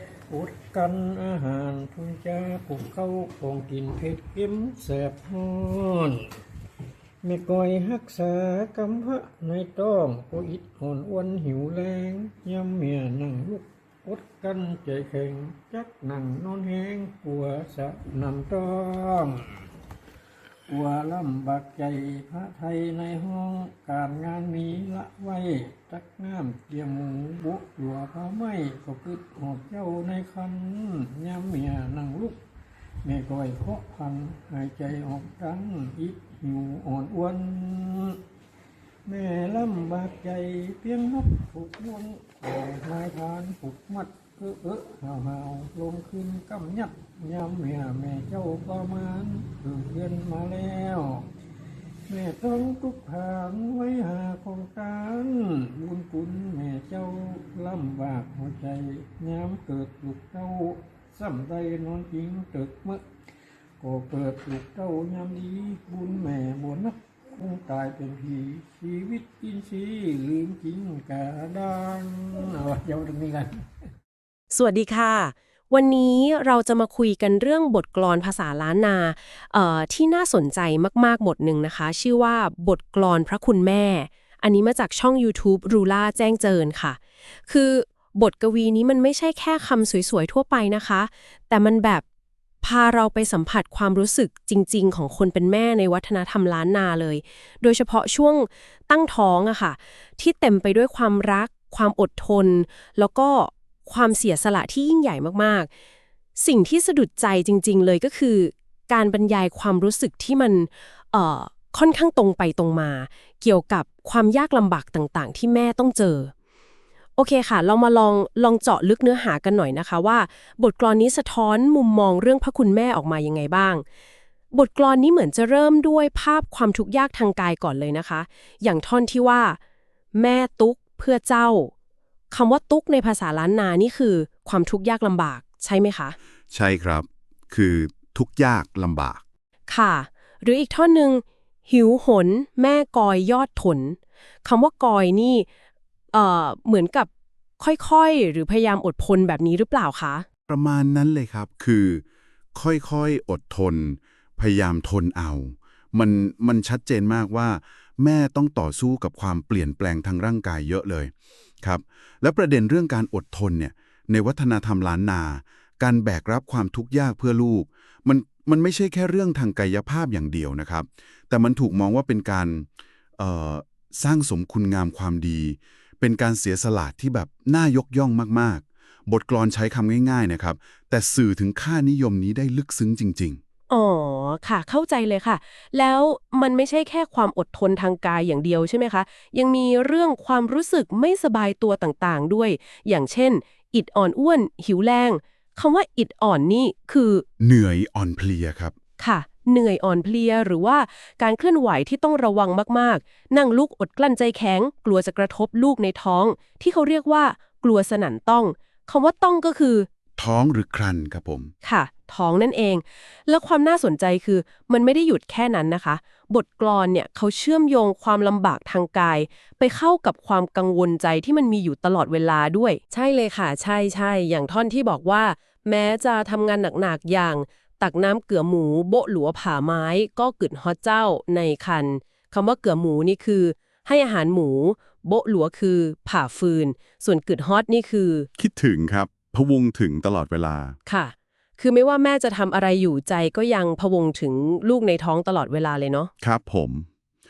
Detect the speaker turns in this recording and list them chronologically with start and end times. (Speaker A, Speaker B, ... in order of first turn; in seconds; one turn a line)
Speaker A: 0.3-6.4
Speaker A: 7.2-19.5
Speaker A: 20.7-32.4
Speaker A: 33.0-38.2
Speaker A: 39.0-51.3
Speaker A: 52.1-63.0
Speaker A: 63.8-73.6
Speaker B: 74.5-92.0
Speaker B: 92.6-105.7
Speaker B: 106.3-116.3
Speaker B: 117.2-123.8
Speaker B: 124.5-129.6
Speaker B: 130.1-131.7
Speaker B: 132.3-136.2
Speaker C: 136.5-139.2
Speaker B: 139.7-145.5
Speaker B: 146.1-150.2
Speaker C: 150.5-183.4
Speaker B: 183.7-197.2
Speaker C: 197.4-198.7
Speaker B: 199.0-209.9
Speaker C: 210.2-211.5
Speaker B: 211.6-238.3
Speaker C: 238.4-240.8
Speaker B: 240.8-246.1
Speaker C: 246.2-246.9